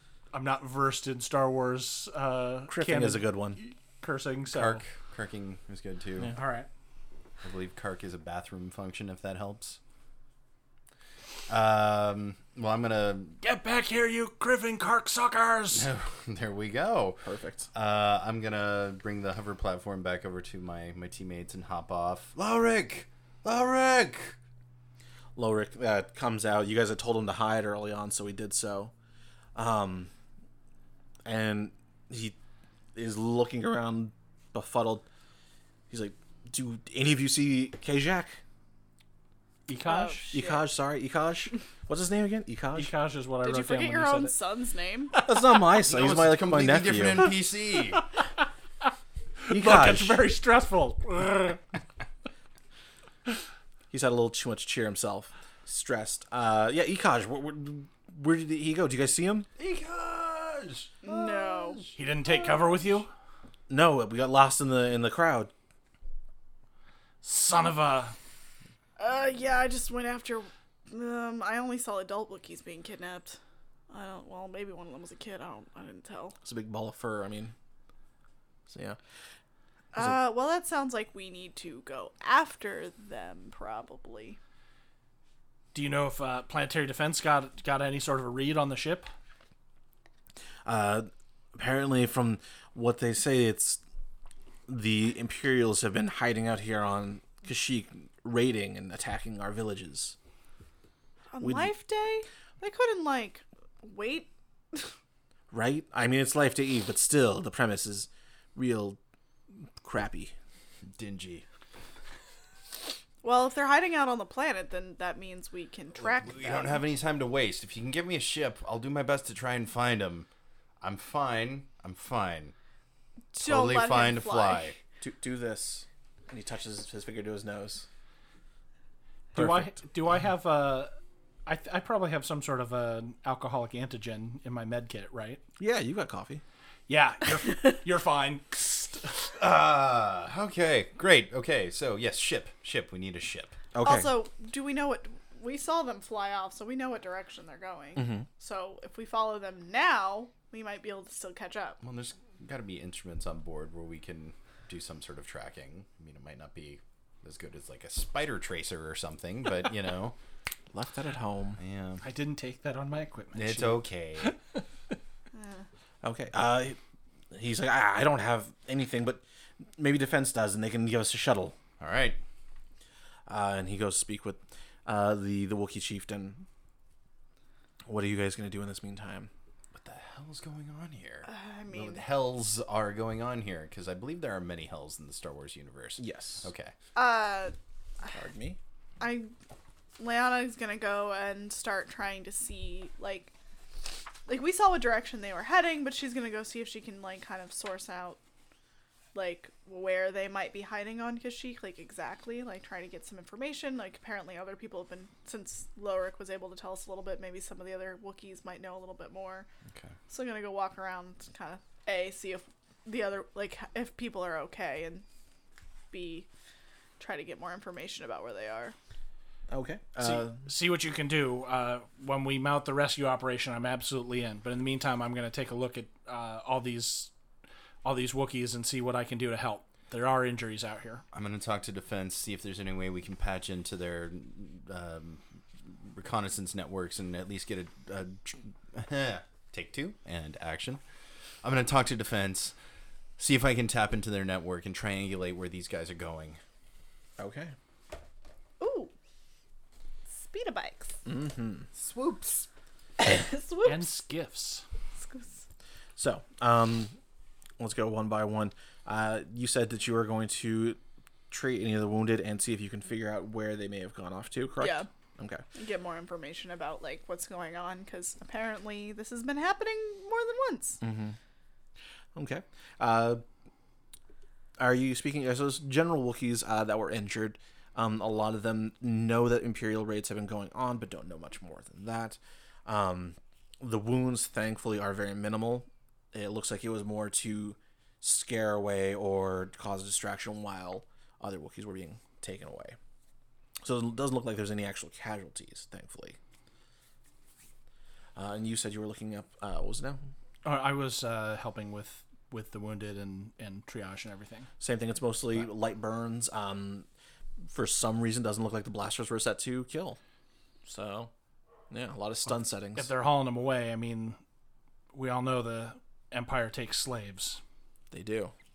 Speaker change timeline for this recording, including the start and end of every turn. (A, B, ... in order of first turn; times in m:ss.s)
0:00.3-0:04.8 A
0:02.7-0:03.6 B
0:04.5-0:06.3 C
0:06.3-0:06.7 A
0:07.4-0:09.8 C
0:11.5-0:13.4 C
0:13.4-0:15.9 A
0:15.7-0:24.4 C
0:17.2-0:17.7 B
0:25.4-0:28.9 B
0:29.6-0:30.1 B
0:31.2-0:32.4 B
0:33.0-0:35.0 B
0:35.9-0:38.4 B
0:39.7-0:40.4 A
0:39.8-0:40.7 D
0:40.3-0:42.9 B
0:42.7-0:44.4 A
0:43.4-0:45.2 D
0:45.2-0:45.6 A
0:45.2-0:47.3 B
0:45.8-0:48.0 C
0:49.5-0:51.6 A
0:49.5-0:50.2 B
0:53.9-0:59.5 B
0:59.6-1:02.8 C
1:01.0-1:01.8 D
1:02.0-1:03.1 A
1:03.7-1:05.5 B
1:07.2-1:08.2 A
1:09.0-1:13.4 D
1:13.9-1:16.4 D
1:16.4-1:17.5 B
1:18.7-1:19.0 B
1:19.9-1:24.4 D
1:25.7-1:29.1 A
1:30.6-1:33.8 B
1:34.7-1:40.2 B
1:41.3-1:44.9 D
1:41.4-1:41.7 B
1:45.5-1:49.0 B
1:49.8-1:50.3 B
1:50.9-1:51.4 C
1:53.2-1:56.8 D
1:56.0-2:00.3 C
2:00.8-2:02.5 C
2:03.3-2:04.8 D
2:03.4-2:04.8 C
2:05.0-2:07.9 B
2:09.3-2:10.9 A
2:09.4-2:09.7 B
2:11.5-2:15.4 A
2:15.6-2:16.4 B
2:16.9-2:19.3 A
2:19.4-2:23.6 C
2:23.7-2:24.1 B
2:23.8-2:31.8 D
2:28.0-2:28.3 B
2:31.8-2:40.2 C
2:40.7-2:41.6 B
2:41.6-2:42.0 C
2:42.0-2:44.6 A
2:43.3-2:44.3 C
2:45.3-2:45.6 D
2:46.0-2:46.8 B
2:47.3-2:49.2 B
2:49.8-2:51.6 B
2:51.8-2:52.2 C
2:53.3-2:56.5 B
2:57.9-2:59.3 B
2:59.7-3:06.8 C
3:01.2-3:02.0 D
3:06.0-3:06.5 B
3:07.0-3:08.1 D
3:08.1-3:08.6 B
3:09.0-3:09.3 D
3:10.0-3:13.3 D
3:14.3-3:18.2 D
3:19.2-3:29.5 D
3:30.1-3:35.0 D
3:35.9-3:36.3 D
3:37.0-3:38.8 D
3:39.5-3:40.4 B
3:40.0-3:47.1 A
3:47.8-3:51.0 A
3:51.1-4:00.8 C
4:01.4-4:02.6 C
4:03.2-4:06.4 C
4:07.2-4:07.5 B
4:08.6-4:08.9 D
4:10.1-4:11.0 D
4:11.1-4:11.7 B
4:11.7-4:12.5 C
4:13.0-4:14.0 D
4:13.6-4:14.6 A
4:15.0-4:15.4 D
4:16.0-4:17.0 B
4:17.6-4:20.8 B
4:21.3-4:25.4 B
4:24.6-4:24.9 D
4:25.6-4:30.8 D
4:30.8-4:31.2 B
4:32.2-4:33.2 B
4:34.6-4:52.8 B
4:53.6-4:56.2 B
4:58.2-5:00.0 B
5:00.4-5:04.5 A
5:04.6-5:06.9 B
5:07.5-5:10.0 B
5:10.6-5:11.1 B
5:11.7-5:12.9 B
5:12.8-5:14.2 A
5:14.9-5:17.4 A
5:17.9-5:18.3 B